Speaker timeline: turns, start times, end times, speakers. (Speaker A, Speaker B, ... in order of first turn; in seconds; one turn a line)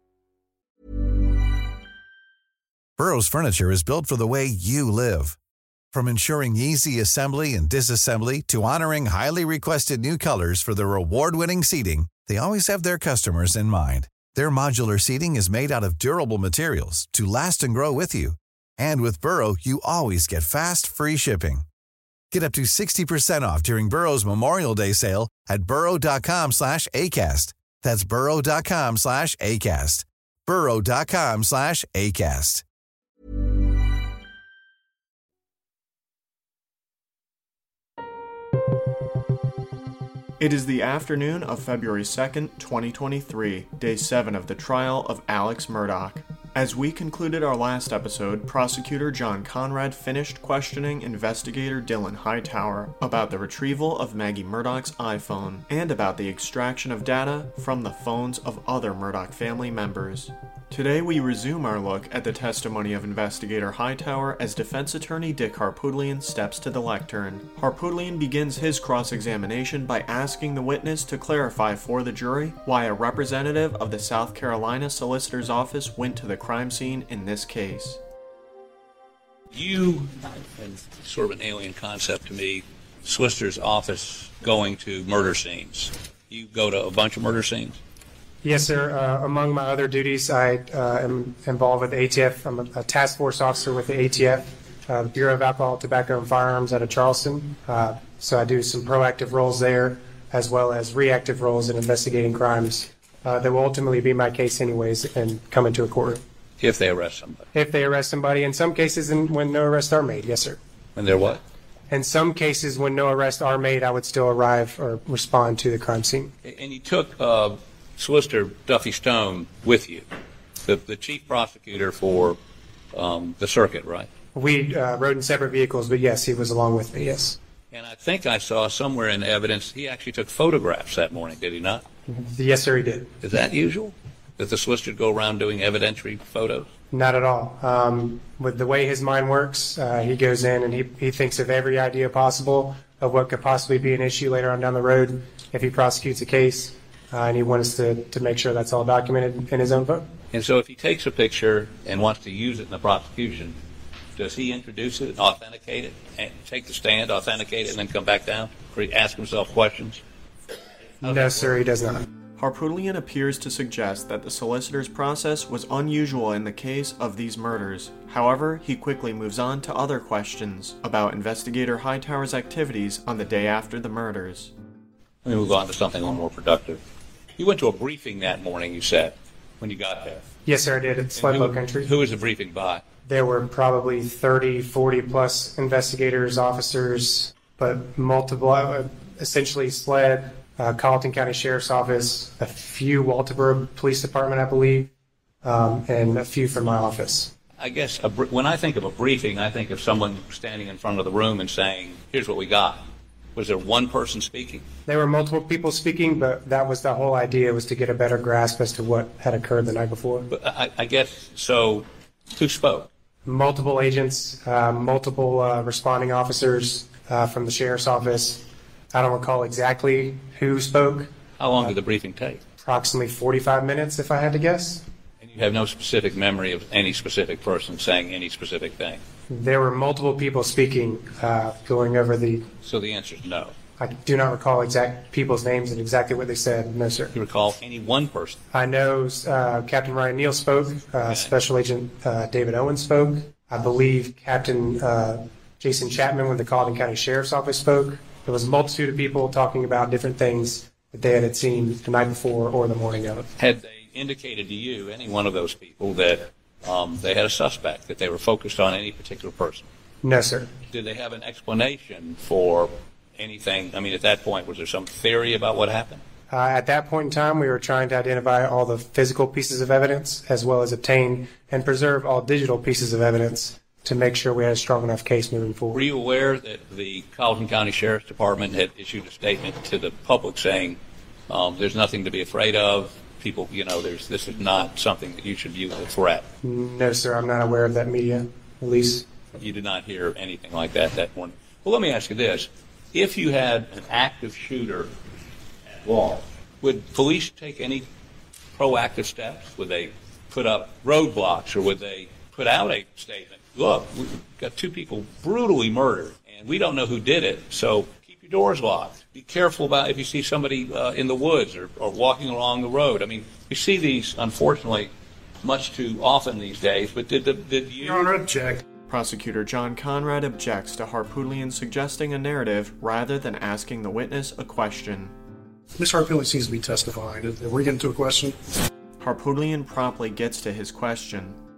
Speaker A: 3.0-5.4
Speaker A: 5.9-21.6
Speaker A: 22.3-32.6
Speaker B: 40.4-78.0
Speaker C: 79.5-87.8
Speaker D: 88.4-106.2
Speaker C: 106.6-107.5
Speaker D: 107.5-110.6
Speaker C: 111.0-111.4
Speaker D: 111.9-116.3
Speaker C: 116.4-120.0
Speaker C: 120.6-122.4
Speaker C: 122.9-124.1
Speaker D: 124.3-127.4
Speaker C: 127.7-131.8
Speaker D: 132.1-133.1
Speaker C: 133.2-136.7
Speaker D: 136.9-150.1
Speaker C: 150.3-153.6
Speaker C: 154.2-160.0
Speaker D: 161.0-162.1
Speaker C: 161.0-161.6
Speaker B: 162.4-174.5
Speaker C: 175.2-176.8
Speaker C: 177.4-180.2
Speaker D: 180.4-181.9
Speaker C: 181.2-182.8
Speaker D: 183.1-194.9
Speaker D: 195.4-197.3
Speaker C: 197.6-204.6
Speaker D: 204.9-210.3
Speaker C: 210.3-212.9
Speaker D: 213.2-221.1
Speaker C: 221.4-222.4
Speaker D: 222.6-224.8
Speaker C: 225.2-229.0
Speaker D: 229.3-232.5
Speaker C: 232.6-233.6
Speaker D: 233.8-237.1
Speaker C: 237.1-238.4
Speaker D: 238.5-253.3
Speaker C: 253.4-259.7
Speaker D: 260.0-260.5
Speaker C: 260.7-266.0
Speaker D: 266.3-275.8
Speaker C: 275.7-286.3
Speaker D: 286.4-289.1
Speaker C: 289.4-294.9
Speaker C: 295.8-297.9
Speaker C: 298.5-314.9
Speaker C: 315.4-318.1
Speaker E: 317.8-318.6
Speaker B: 318.9-325.1
Speaker E: 325.8-328.4
Speaker B: 329.0-331.4